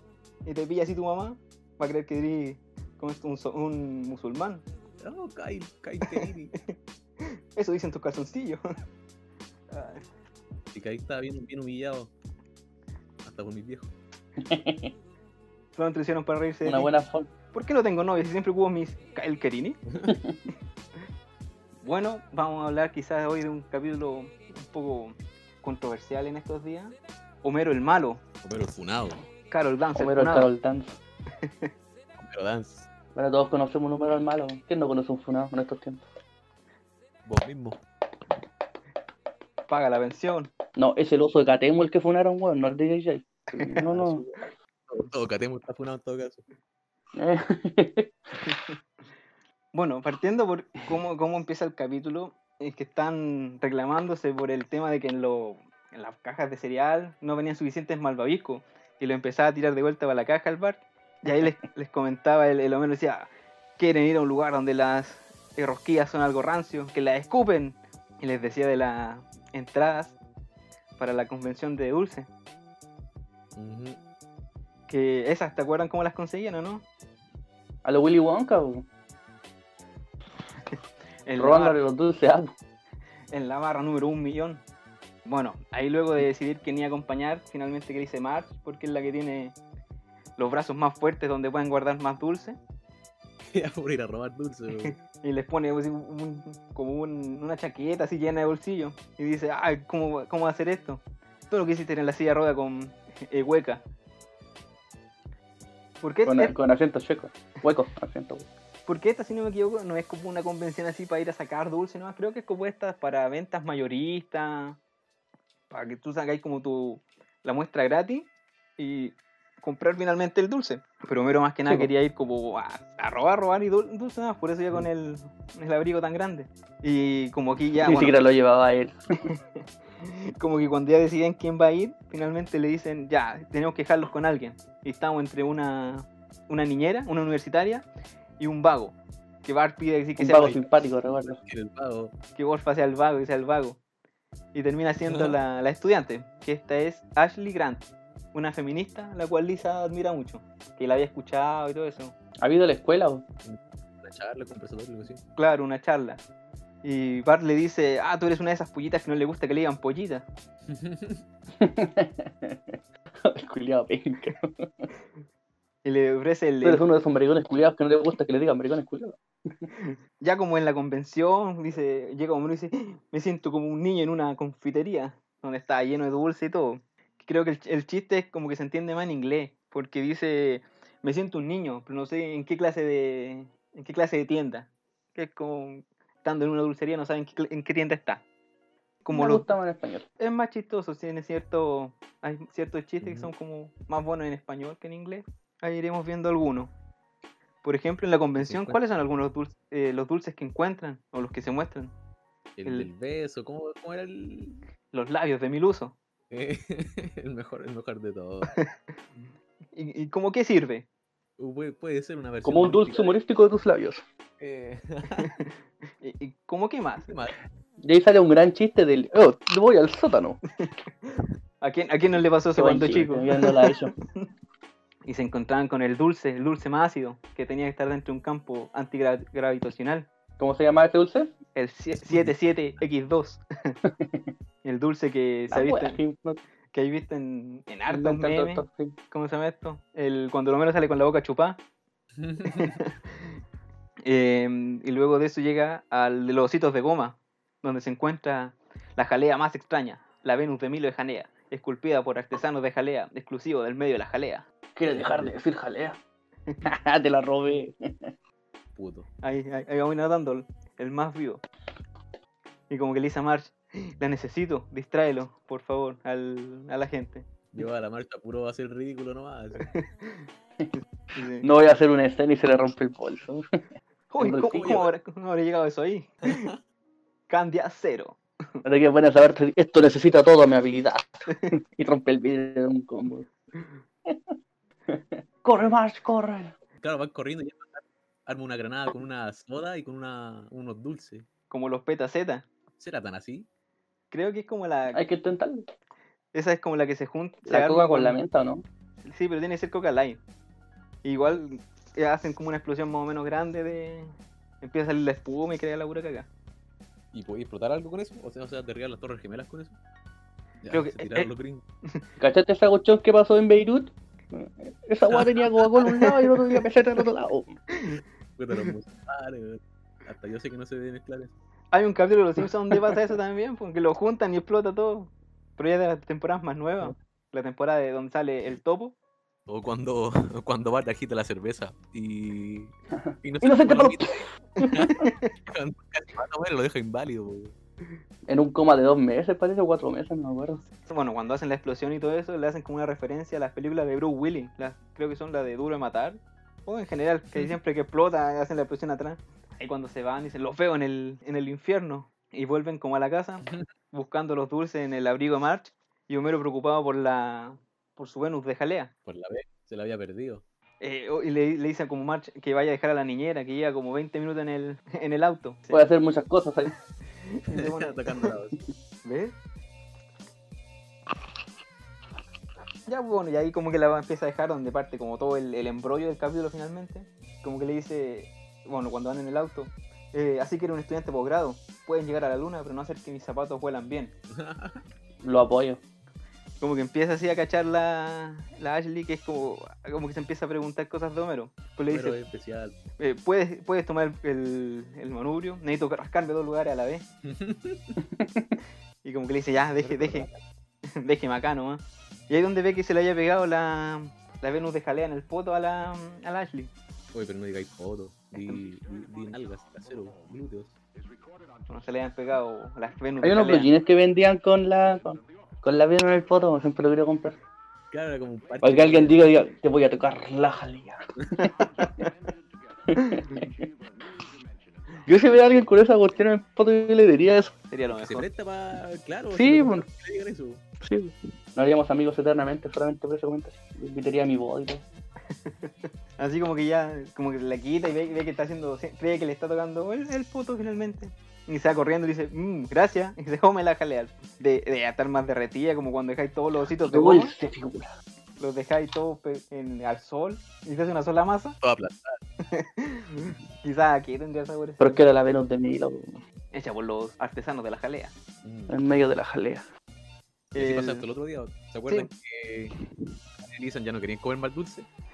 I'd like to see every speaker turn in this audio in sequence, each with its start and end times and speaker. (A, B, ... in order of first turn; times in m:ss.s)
0:00.4-0:04.6 A
0:05.0-0:06.5 B
0:07.5-0:08.6 A
0:09.7-0:10.0 A
0:10.7-0:12.1 B
0:13.2-0:13.9 B
0:14.4-0:14.9 C
0:15.8-0:16.9 A
0:16.6-0:17.3 C
0:17.5-0:19.8 A
0:19.9-0:20.1 B
0:20.1-0:20.4 C
0:21.8-0:28.2 A
0:28.4-0:29.2 B
0:29.5-0:30.5 A
0:29.9-0:31.0 C
0:31.4-0:31.7 A
0:32.2-0:32.9 B
0:33.1-0:36.0 C
0:37.2-0:37.8 B
0:39.7-0:40.5 A
0:40.8-0:44.3 C
0:43.8-0:44.3 B
0:44.9-0:46.4 B
0:47.1-0:48.1 C
0:49.7-1:10.2 A
1:11.0-1:12.3 A
1:13.6-1:14.0 B
1:14.9-1:16.8 A
1:17.8-1:18.8 C
1:21.2-1:21.8 A
1:21.4-1:22.5 C
1:23.3-1:24.6 A
1:25.2-1:29.6 A
1:30.4-1:32.6 A
1:33.5-1:34.9 B
1:34.8-1:43.8 A
1:46.0-1:46.5 A
1:46.2-1:48.5 C
1:48.9-1:54.8 A
1:55.7-2:08.2 A
2:07.8-2:09.0 C
2:10.0-2:17.8 A
2:18.4-2:20.7 A
2:20.2-2:21.4 C
2:21.4-2:22.1 B
2:22.4-2:23.8 A
2:24.5-2:32.1 A
2:32.4-2:33.2 C
2:33.4-2:35.2 B
2:35.4-2:36.2 A
2:36.8-2:40.2 A
2:40.7-2:41.2 B
2:41.6-2:44.9 C
2:45.8-2:46.8 A
2:46.6-2:49.7 C
2:49.8-3:08.2 A
3:09.0-3:09.5 A
3:09.1-3:10.0 C
3:10.2-3:16.7 A
3:13.0-3:13.3 B
3:17.6-3:21.9 A
3:18.4-3:18.8 B
3:22.6-3:24.6 B
3:22.6-3:22.9 A
3:24.9-3:26.0 A
3:26.3-3:28.6 B
3:29.7-3:30.9 A
3:31.4-3:33.2 B
3:32.4-3:34.0 C
3:34.4-3:35.3 B
3:36.0-3:37.1 A
3:37.1-3:37.4 B
3:37.8-3:40.4 C
3:41.6-3:44.2 A
3:42.6-3:43.9 C
3:45.0-3:50.1 A
3:50.4-3:51.3 C
3:51.5-3:53.7 A
3:53.8-3:54.3 C
3:54.6-3:56.0 A
3:55.5-3:56.4 C
3:56.7-4:01.6 A
3:57.9-3:59.0 C
4:02.2-4:02.8 B
4:02.5-4:02.8 A
4:04.0-4:14.4 A
4:14.8-4:16.0 C
4:14.9-4:15.3 B
4:16.6-4:18.1 C
4:18.8-4:19.1 B
4:19.2-4:21.4 A
4:22.7-4:27.3 A
4:27.5-4:29.7 B
4:31.2-4:31.5 A
4:31.4-4:33.4 C
4:34.1-4:36.5 A
4:34.2-4:34.9 C
4:34.6-4:34.8 B
4:36.3-4:36.5 B
4:37.3-4:38.2 A
4:38.6-4:43.3 C
4:44.0-4:44.3 C
4:44.9-4:46.5 C
4:46.8-4:51.3 B
4:51.5-4:52.5 A
4:52.8-4:53.5 B
4:54.1-4:55.0 A
4:54.9-4:55.6 C
4:56.3-4:58.2 A
4:57.4-4:58.6 C
4:59.0-5:00.2 A
5:01.0-5:06.3 A
5:07.1-5:09.8 B
5:10.6-5:11.6 B
5:10.7-5:11.3 A
5:12.2-5:17.5 C
5:15.1-5:15.4 B
5:17.7-5:18.0 A
5:18.4-5:21.3 B
5:21.7-5:28.9 A
5:29.5-5:37.5 B
5:32.9-5:34.9 C
5:38.3-5:40.6 C
5:40.8-5:58.9 A
5:59.1-6:00.4 B
6:00.8-6:05.8 A
6:05.7-6:06.7 C
6:07.3-6:08.3 A
6:07.5-6:08.6 B
6:09.0-6:09.4 A
6:12.9-6:24.1 A
6:24.3-6:24.8 B
6:25.2-6:25.8 C
6:26.6-6:32.2 A
6:31.9-6:32.8 B
6:33.0-6:37.0 A
6:37.2-6:38.0 B
6:38.1-6:38.6 C
6:39.0-6:40.3 A
6:39.8-6:40.4 B
6:40.9-6:46.7 A
6:47.1-6:50.8 B
6:51.7-6:53.7 A
6:53.2-6:57.4 C
6:57.9-6:59.2 B
6:58.6-7:01.6 C
7:02.9-7:03.7 C
7:05.0-7:07.5 C
7:07.7-7:08.3 A
7:07.9-7:10.6 B
7:09.3-7:09.8 C
7:10.8-7:14.8 C
7:15.5-7:27.3 A
7:26.8-7:27.9 C
7:28.4-7:31.6 A
7:31.6-7:32.2 B
7:32.5-7:35.0 A
7:34.8-7:36.2 C
7:36.5-7:38.1 A
7:38.4-7:38.8 B
7:38.7-7:39.6 C
7:40.5-7:42.7 B
7:40.5-7:41.0 A
7:43.4-7:44.9 B